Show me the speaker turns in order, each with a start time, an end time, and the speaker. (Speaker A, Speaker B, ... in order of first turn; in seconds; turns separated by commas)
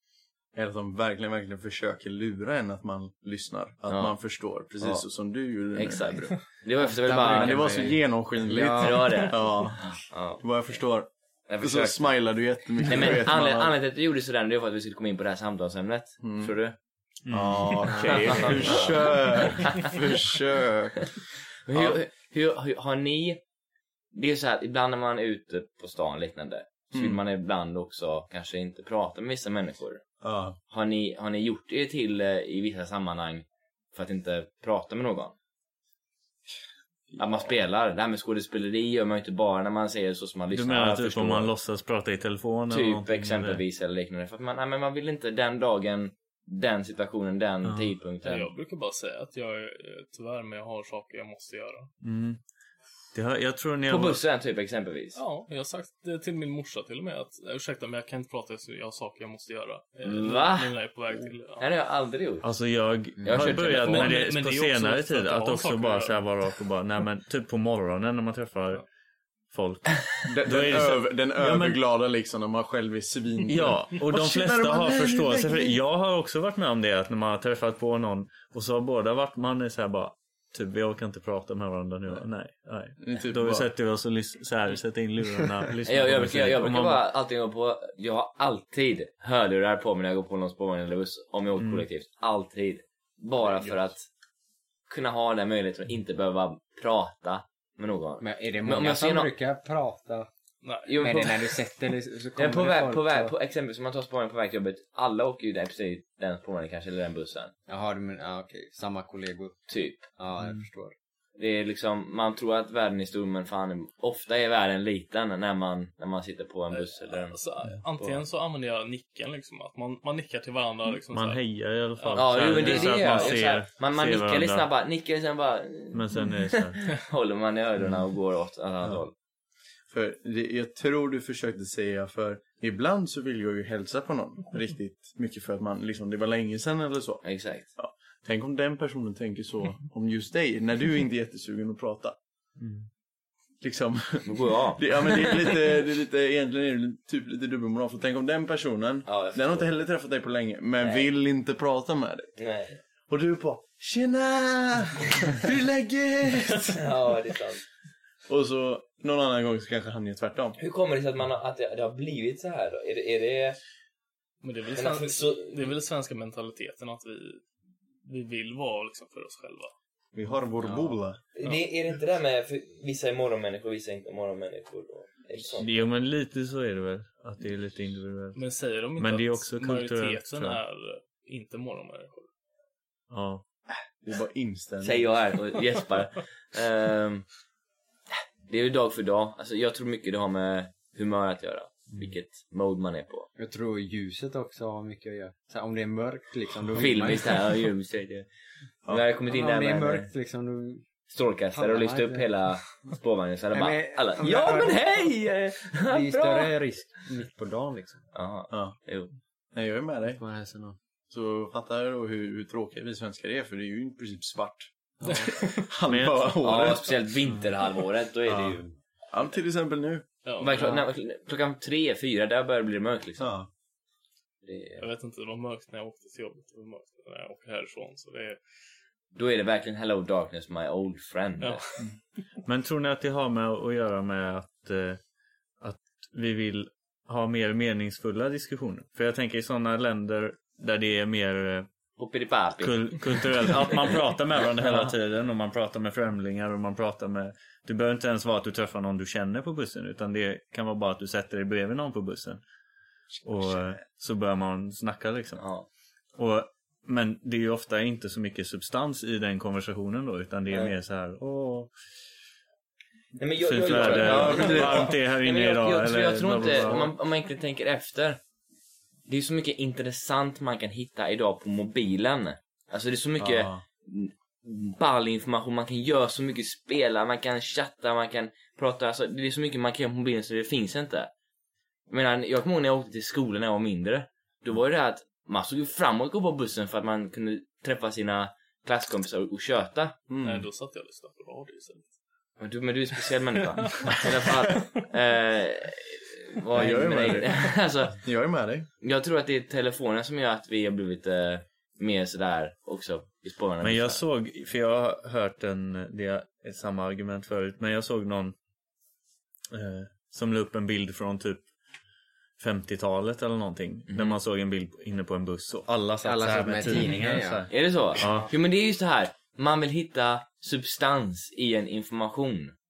Speaker A: 0.5-6.4, Speaker B: 3.9-4.2, Speaker B: 4.7-5.0, Speaker B: 5.7-8.0, Speaker C: 6.8-9.3, Speaker A: 7.1-11.1, Speaker B: 8.5-10.6, Speaker B: 11.5-12.1, Speaker A: 11.6-13.7, Speaker B: 12.8-16.8, Speaker A: 16.2-16.5, Speaker D: 17.2-19.0, Speaker A: 17.3-21.2, Speaker C: 17.9-18.4, Speaker B: 18.0-19.9, Speaker B: 21.7-23.4, Speaker A: 21.7-22.0, Speaker B: 24.1-30.0, Speaker A: 26.9-27.2, Speaker A: 30.2-30.6, Speaker B: 30.7-35.3, Speaker A: 37.1-37.5, Speaker B: 37.2-41.5, Speaker D: 40.5-43.6, Speaker B: 42.7-48.5, Speaker D: 47.6-47.9, Speaker E: 48.2-51.9, Speaker D: 52.0-52.4, Speaker D: 53.1-54.2, Speaker B: 53.9-55.2, Speaker E: 55.1-61.7, Speaker B: 60.0-60.7, Speaker B: 61.6-62.5, Speaker D: 62.4-68.8, Speaker C: 63.2-63.6, Speaker B: 63.2-64.2, Speaker E: 63.8-66.2, Speaker D: 69.5-71.8, Speaker A: 70.2-75.8, Speaker D: 73.5-87.0, Speaker A: 83.0-83.7, Speaker B: 85.8-94.0, Speaker D: 91.6-91.8, Speaker B: 94.9-99.3, Speaker C: 98.2-100.3, Speaker E: 100.6-101.0, Speaker B: 100.8-101.6, Speaker C: 101.0-103.3, Speaker B: 102.3-107.5, Speaker C: 107.7-109.6, Speaker B: 109.7-110.1, Speaker C: 110.2-110.9, Speaker B: 111.4-117.4, Speaker E: 116.7-123.4, Speaker D: 121.1-124.7, Speaker B: 122.2-129.1, Speaker D: 125.9-126.8, Speaker A: 129.9-137.2, Speaker B: 137.2-137.7, Speaker A: 137.8-142.2, Speaker D: 142.6-142.9, Speaker A: 143.6-152.3, Speaker B: 144.2-145.6, Speaker B: 149.1-149.7, Speaker B: 150.8-151.1, Speaker B: 152.4-152.8, Speaker A: 153.1-156.8, Speaker B: 156.7-157.6, Speaker A: 158.3-160.6, Speaker B: 160.6-163.6, Speaker E: 164.4-167.4, Speaker B: 164.7-165.7, Speaker E: 168.0-169.7, Speaker A: 170.1-171.2, Speaker C: 170.6-170.9, Speaker B: 171.3-175.7, Speaker D: 175.6-178.4, Speaker E: 178.3-182.3, Speaker D: 178.9-180.6, Speaker D: 183.1-183.4, Speaker A: 183.9-185.1, Speaker B: 184.8-187.3, Speaker B: 188.5-193.3, Speaker C: 193.3-197.5, Speaker B: 196.7-198.3, Speaker B: 198.9-200.1, Speaker C: 199.3-200.9, Speaker B: 201.1-206.5, Speaker C: 201.5-202.3, Speaker C: 203.5-205.1, Speaker C: 205.9-208.0, Speaker B: 208.1-209.1, Speaker A: 208.5-208.8, Speaker A: 209.5-210.2, Speaker C: 210.2-210.8, Speaker A: 211.1-217.0, Speaker C: 215.0-215.4, Speaker D: 215.9-216.4, Speaker B: 216.4-218.7, Speaker A: 218.3-218.6, Speaker A: 219.1-220.0, Speaker E: 220.2-220.6, Speaker B: 220.4-223.3, Speaker C: 220.5-220.8, Speaker A: 223.2-223.5, Speaker B: 224.4-224.8, Speaker E: 224.8-228.4, Speaker B: 229.1-231.6, Speaker D: 232.4-235.0, Speaker D: 235.6-241.7, Speaker B: 242.0-243.9, Speaker D: 242.6-252.4, Speaker D: 253.2-255.4, Speaker B: 255.4-255.7, Speaker D: 256.1-261.7, Speaker B: 263.2-268.2, Speaker D: 263.4-266.9, Speaker A: 263.6-264.9, Speaker A: 266.5-266.8, Speaker B: 269.1-281.1, Speaker A: 273.2-273.6, Speaker B: 281.9-289.9, Speaker A: 290.1-290.5, Speaker E: 290.2-291.9, Speaker B: 292.4-298.0, Speaker E: 293.8-294.1, Speaker A: 296.5-298.7, Speaker B: 298.8-304.0, Speaker D: 303.6-308.4, Speaker D: 309.5-311.4, Speaker D: 312.4-318.3, Speaker B: 313.9-314.2, Speaker C: 316.0-317.5, Speaker B: 317.5-322.5